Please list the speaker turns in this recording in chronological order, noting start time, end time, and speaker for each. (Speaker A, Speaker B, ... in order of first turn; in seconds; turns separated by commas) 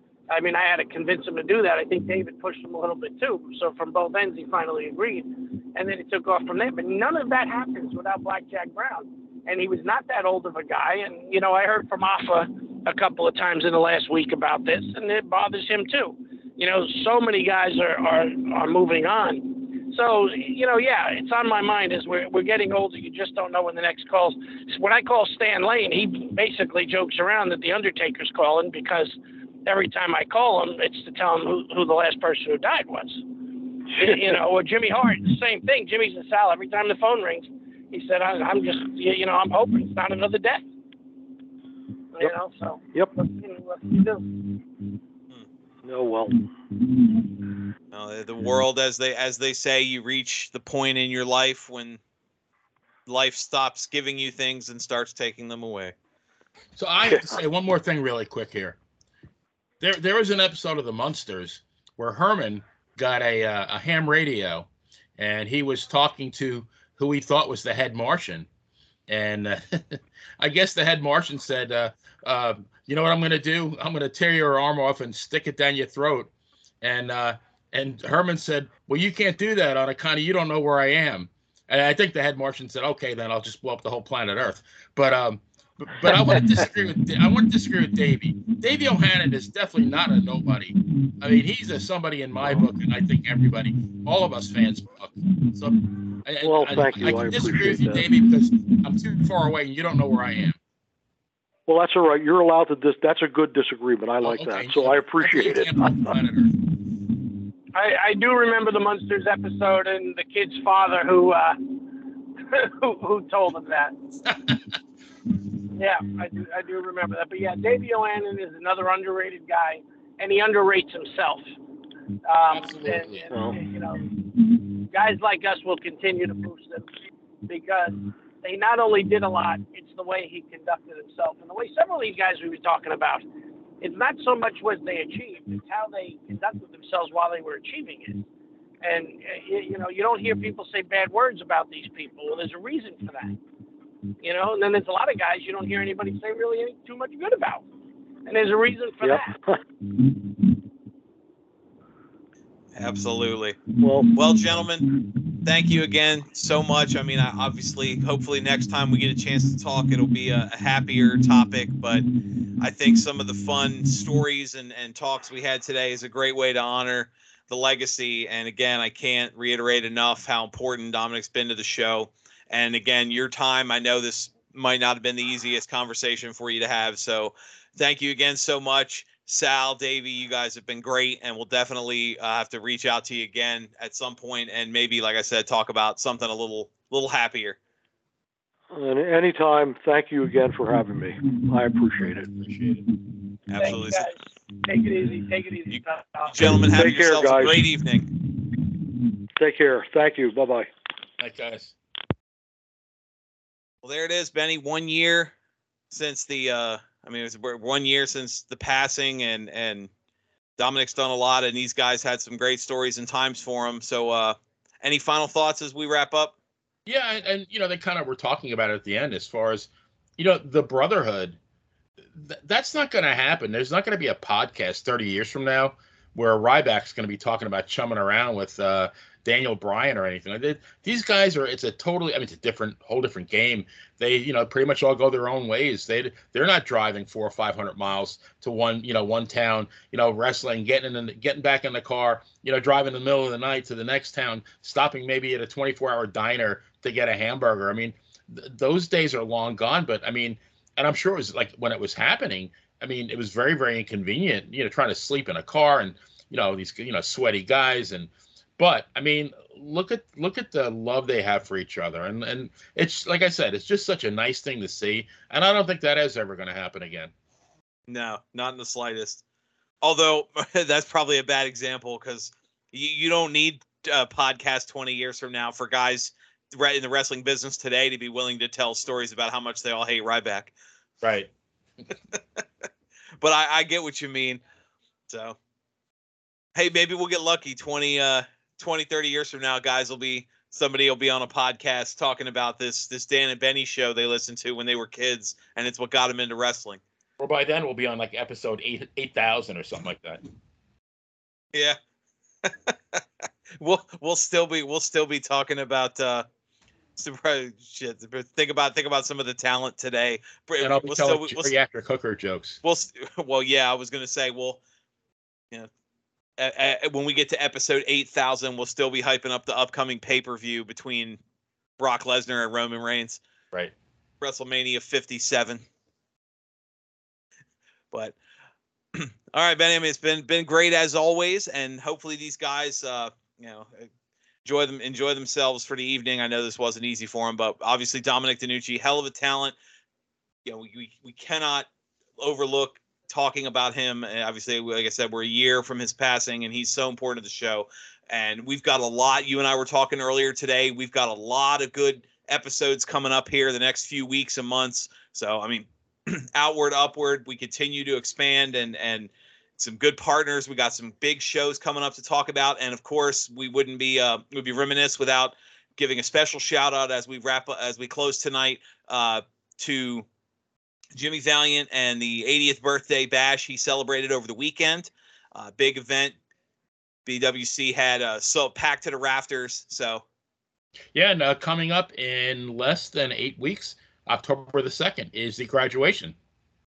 Speaker A: 0.3-33.2, Speaker A: 33.8-40.6, Speaker A: 42.1-44.3, Speaker B: 45.8-46.4, Speaker C: 47.9-52.0, Speaker C: 53.1-55.9, Speaker D: 56.8-58.8, Speaker D: 59.8-68.5, Speaker D: 69.1-76.3, Speaker D: 76.8-100.6, Speaker B: 86.0-86.4, Speaker B: 96.4-98.0, Speaker B: 101.7-106.2, Speaker D: 104.2-106.5, Speaker A: 107.7-111.7, Speaker A: 112.5-113.9, Speaker D: 114.3-114.8, Speaker A: 115.7-121.4, Speaker A: 122.3-124.0, Speaker D: 122.5-123.3, Speaker B: 123.3-123.6, Speaker A: 124.8-126.9, Speaker A: 127.5-133.2, Speaker A: 133.8-138.2, Speaker A: 138.8-143.4, Speaker A: 144.2-147.6, Speaker A: 148.3-149.3, Speaker B: 149.0-149.6, Speaker C: 152.7-153.6, Speaker B: 153.8-154.1, Speaker C: 154.1-154.9, Speaker C: 155.4-162.1, Speaker C: 162.6-187.6, Speaker B: 188.7-192.3, Speaker D: 192.3-192.8, Speaker C: 193.5-194.1, Speaker A: 193.6-196.4, Speaker C: 195.7-198.1, Speaker B: 196.6-197.6, Speaker B: 199.4-200.7, Speaker D: 201.2-201.7, Speaker C: 203.8-205.3, Speaker C: 205.9-209.9, Speaker C: 210.6-216.3, Speaker D: 216.8-221.4, Speaker D: 222.2-267.1, Speaker C: 267.9-269.2, Speaker C: 269.8-280.5, Speaker D: 281.0-281.3, Speaker C: 282.1-282.4, Speaker C: 283.2-284.4, Speaker C: 285.1-285.4, Speaker C: 286.6-296.8, Speaker D: 297.2-300.2, Speaker C: 302.4-303.0, Speaker C: 303.6-306.3, Speaker C: 307.0-311.5, Speaker D: 310.6-312.6, Speaker C: 312.6-314.6, Speaker C: 316.4-321.2, Speaker C: 321.8-323.2, Speaker C: 324.2-325.6, Speaker C: 328.9-333.9, Speaker C: 334.4-339.5, Speaker C: 340.4-341.7, Speaker C: 342.2-370.1, Speaker C: 370.9-376.1, Speaker C: 377.1-380.0, Speaker D: 380.9-386.1